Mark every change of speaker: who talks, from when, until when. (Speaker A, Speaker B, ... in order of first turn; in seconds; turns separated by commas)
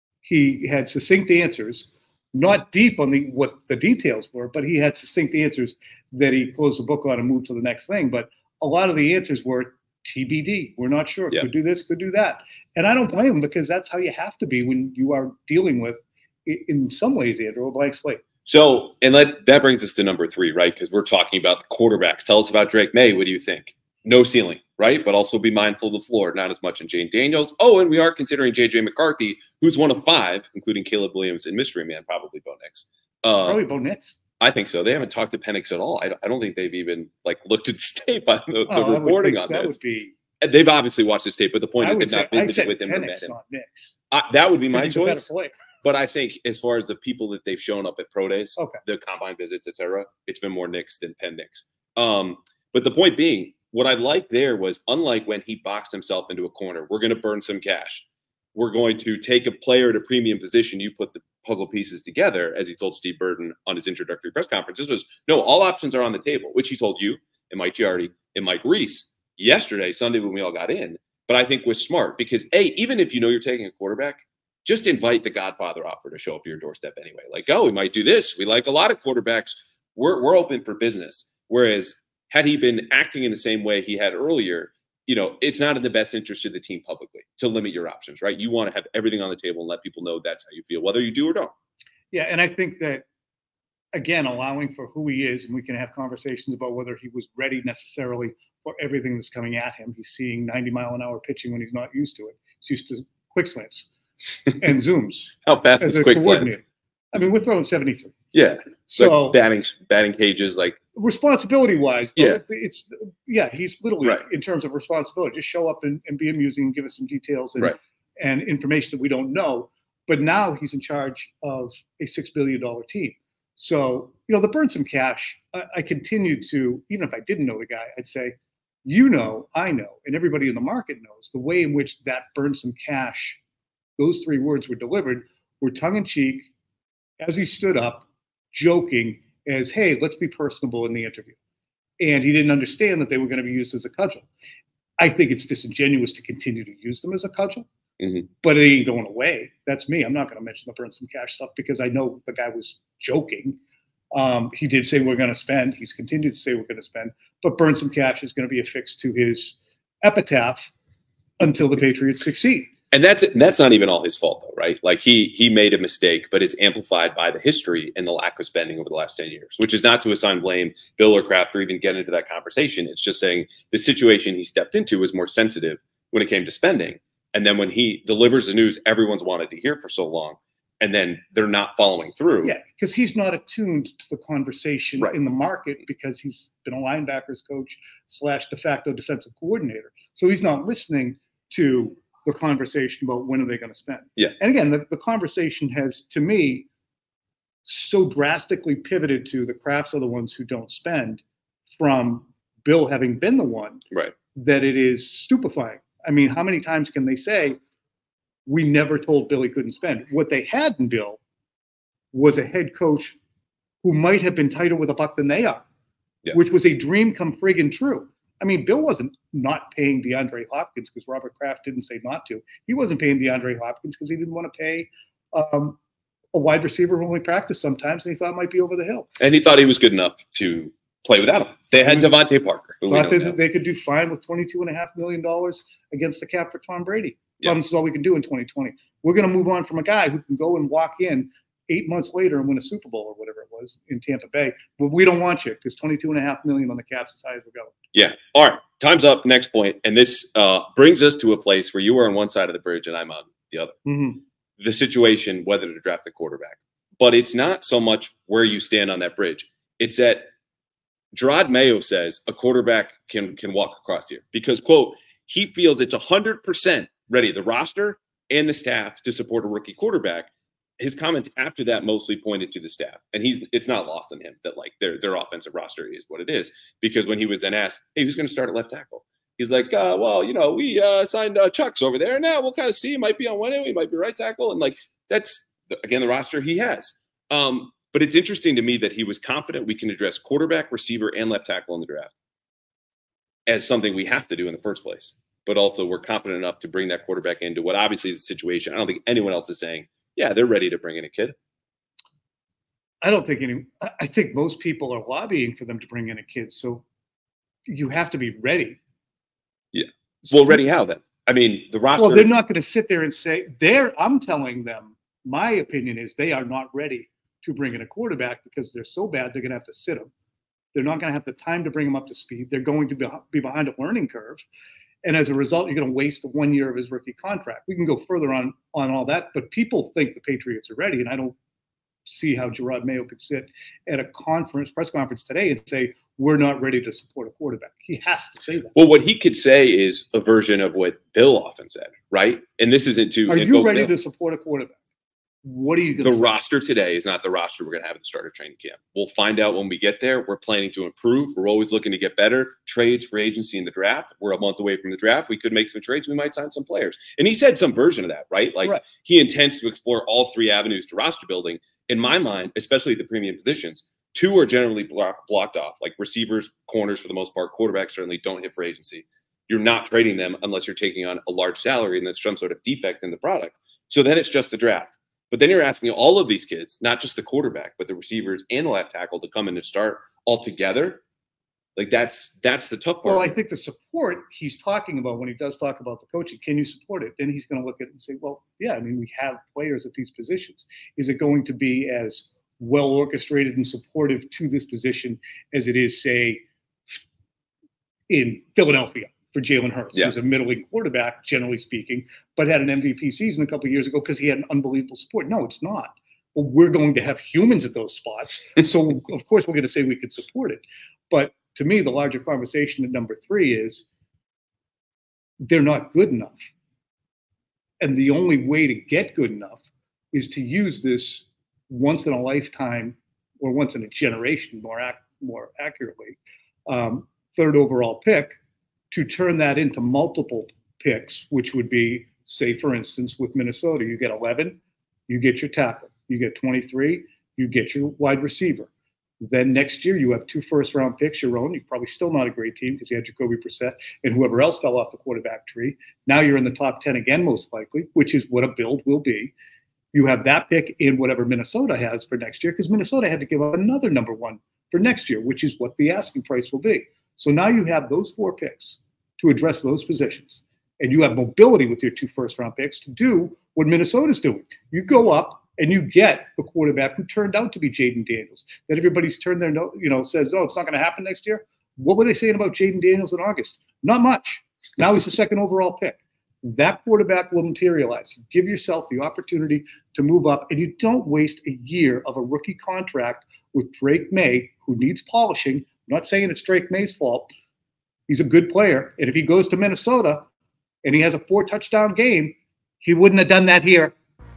Speaker A: 0.2-18.2, Speaker B: 18.4-33.6, Speaker A: 33.4-34.2, Speaker B: 34.4-39.8, Speaker A: 38.7-40.1, Speaker B: 40.4-43.3, Speaker A: 41.8-44.0, Speaker B: 44.1-45.3, Speaker A: 44.7-45.5, Speaker B: 45.8-91.5, Speaker A: 92.1-93.0, Speaker A: 93.9-103.9, Speaker A: 104.5-108.2, Speaker B: 105.4-106.5, Speaker B: 108.3-110.8, Speaker A: 108.9-109.4, Speaker A: 110.9-133.4, Speaker A: 134.0-136.5, Speaker A: 137.2-141.4, Speaker A: 142.0-144.3, Speaker A: 145.0-147.7, Speaker B: 148.0-148.3, Speaker A: 148.4-153.6, Speaker A: 154.1-160.7, Speaker A: 161.4-162.7, Speaker B: 162.9-182.5, Speaker A: 182.4-196.7, Speaker A: 197.6-207.6, Speaker A: 208.4-211.2, Speaker A: 212.1-213.2, Speaker A: 213.8-215.6, Speaker A: 216.3-225.8, Speaker A: 226.3-229.1, Speaker B: 229.2-233.4, Speaker A: 231.8-232.2, Speaker A: 232.8-247.7, Speaker B: 247.9-253.8, Speaker A: 253.8-254.2, Speaker B: 254.6-260.3, Speaker B: 261.1-292.1, Speaker B: 293.5-301.3, Speaker A: 303.0-306.8, Speaker A: 307.7-308.8, Speaker B: 309.7-312.3, Speaker A: 310.2-310.6, Speaker A: 312.0-320.1, Speaker A: 320.7-324.4, Speaker A: 325.0-331.4, Speaker A: 332.1-338.7, Speaker B: 338.7-343.9, Speaker A: 343.3-344.8, Speaker A: 345.4-346.3, Speaker B: 346.0-381.0, Speaker B: 381.8-383.3, Speaker A: 383.0-397.0, Speaker A: 398.1-413.9, Speaker A: 415.4-416.4, Speaker A: 417.8-428.3, Speaker A: 428.9-438.7, Speaker A: 439.2-449.3, Speaker A: 449.9-487.3, Speaker A: 488.1-490.3, Speaker A: 490.8-493.9